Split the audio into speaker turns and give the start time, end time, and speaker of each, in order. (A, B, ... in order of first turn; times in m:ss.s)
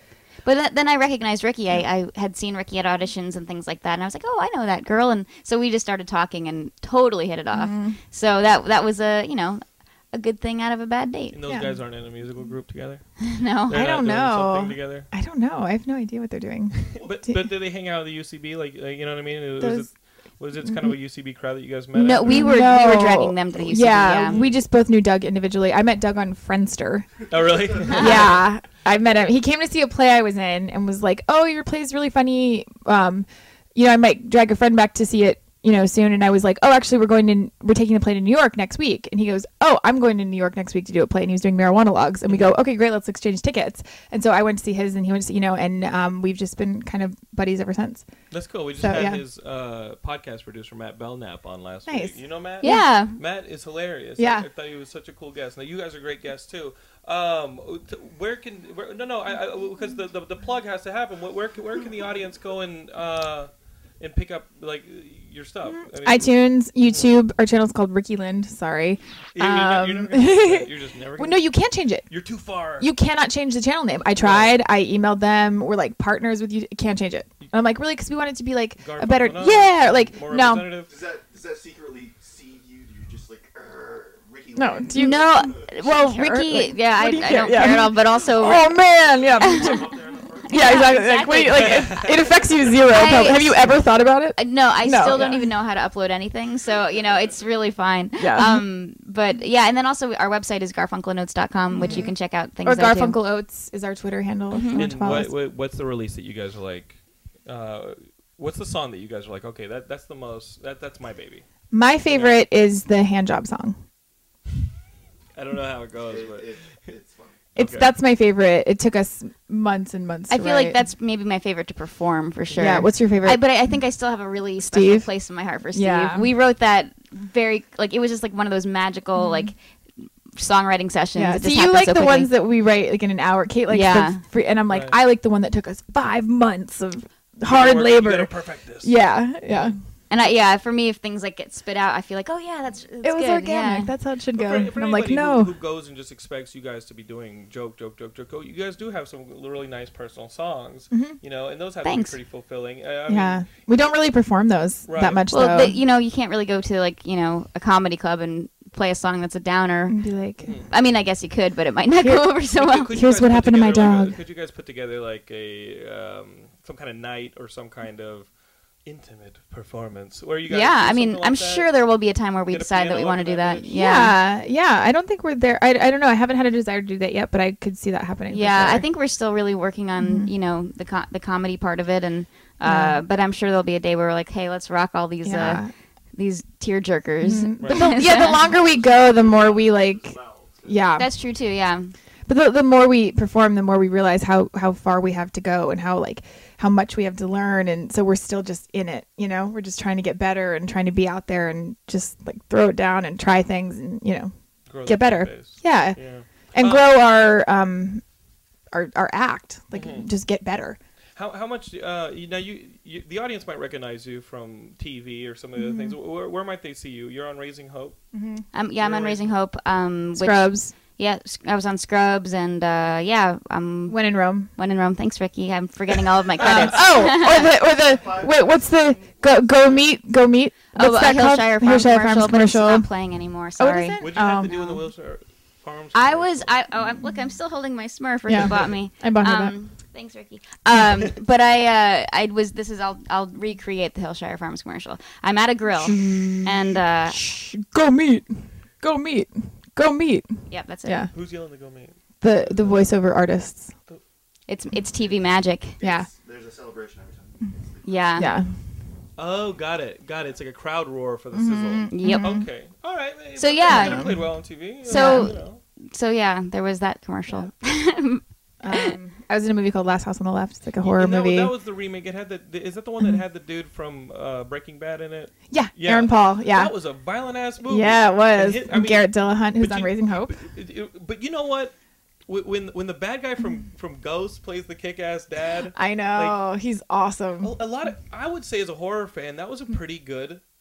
0:00.4-0:11.4 A
0:07.5-0:08.0 B
0:11.3-0:13.0 C
0:11.5-0:11.8 B
0:13.2-0:13.8 A
0:13.7-0:15.1 C
0:13.7-0:17.5 B
0:16.9-0:22.6 C
0:19.6-0:19.9 B
0:21.9-0:24.4 A
0:22.2-0:27.1 B
0:24.3-0:24.6 C
0:27.3-0:28.5 C
0:27.3-0:28.2 D
0:27.9-0:28.3 A
0:27.9-0:48.1 B
0:42.3-0:42.5 C
0:48.3-1:07.1 C
0:48.8-0:49.2 B
0:51.9-0:52.9 B
0:52.6-0:53.2 A
0:54.2-0:54.4 B
1:05.9-1:12.1 B
1:09.3-1:11.5 C
1:12.1-1:12.9 C
1:12.8-1:20.7 B
1:14.2-1:14.6 C
1:18.8-1:20.9 C
1:20.9-1:25.2 D
1:24.6-1:29.9 B
1:24.9-1:28.8 A
1:28.9-1:31.3 E
1:29.4-1:29.8 A
1:30.4-1:32.1 A
1:30.4-1:35.5 B
1:31.5-1:32.2 C
1:32.9-1:33.7 A
1:34.4-1:43.2 A
1:38.2-1:38.6 B
1:41.7-1:45.3 B
1:44.5-1:44.9 A
1:44.7-1:51.4 C
1:51.7-1:53.8 B
1:52.1-1:52.4 C
1:55.3-1:56.6 C
1:56.0-1:57.4 D
1:57.6-1:57.9 C
1:57.6-2:00.8 B
2:00.3-2:09.5 A
2:02.5-2:03.4 B
2:04.6-2:05.1 B
2:05.7-2:06.2 B
2:09.2-2:09.5 B
2:10.4-2:12.3 A
2:11.1-2:18.3 B
2:13.7-2:14.2 A
2:14.7-2:15.0 C
2:17.4-2:18.9 C
2:18.8-2:19.8 B
2:20.1-2:23.9 A
2:23.0-2:25.5 B
2:24.3-2:33.5 C
2:30.9-2:31.2 B
2:31.8-2:32.2 A
2:33.1-2:35.8 B
2:34.8-2:35.3 C
2:35.3-2:40.0 A
2:39.9-2:40.5 B
2:40.4-2:40.7 C
2:40.7-2:42.9 A
2:42.0-2:42.3 B
2:42.5-2:48.3 C
2:42.9-2:44.2 B
2:48.8-2:51.7 C
2:50.5-2:54.2 A
2:52.5-2:53.7 C
2:53.7-2:58.8 B
2:58.3-3:08.4 A
3:00.0-3:00.3 B
3:02.6-3:03.0 B
3:05.2-3:05.7 B
3:07.2-3:11.1 B
3:07.6-3:08.1 C
3:08.3-3:10.8 E
3:11.0-3:11.9 A
3:12.3-3:24.3 B
3:24.7-3:26.9 C
3:24.8-3:26.0 B
3:26.5-3:28.0 B
3:28.7-3:30.8 B
3:29.7-3:30.1 C
3:31.2-3:38.0 C
3:35.6-3:36.0 B
3:38.1-3:38.4 B
3:38.5-3:44.0 A
3:38.8-3:39.3 C
3:40.2-3:40.7 B
3:43.9-3:44.5 B
3:44.5-3:47.6 A
3:46.4-3:52.9 B
3:46.4-3:46.7 C
3:47.3-3:49.8 D
3:50.7-3:54.7 A
3:53.6-3:54.7 B
3:54.0-3:56.5 C
3:55.9-4:07.2 A
3:58.3-3:59.5 B
4:05.8-4:11.1 B
4:10.5-4:11.1 A
4:11.1-4:12.8 C
4:12.2-4:13.7 B
4:14.5-4:15.8 A
4:15.8-4:18.2 D
4:15.8-4:16.1 B
4:17.8-4:18.3 A
4:18.2-4:18.5 B
4:19.2-4:25.6 C
4:21.3-4:22.5 B
4:21.9-4:22.4 A
4:23.4-4:24.2 A
4:23.6-4:24.3 B
4:24.8-4:25.4 B
4:24.8-4:28.9 A
4:28.6-4:31.5 B
4:30.8-4:41.7 C
4:35.5-4:36.7 B
4:37.6-4:40.4 B
4:42.3-4:46.4 C
4:45.7-4:47.5 B
4:47.4-4:50.4 C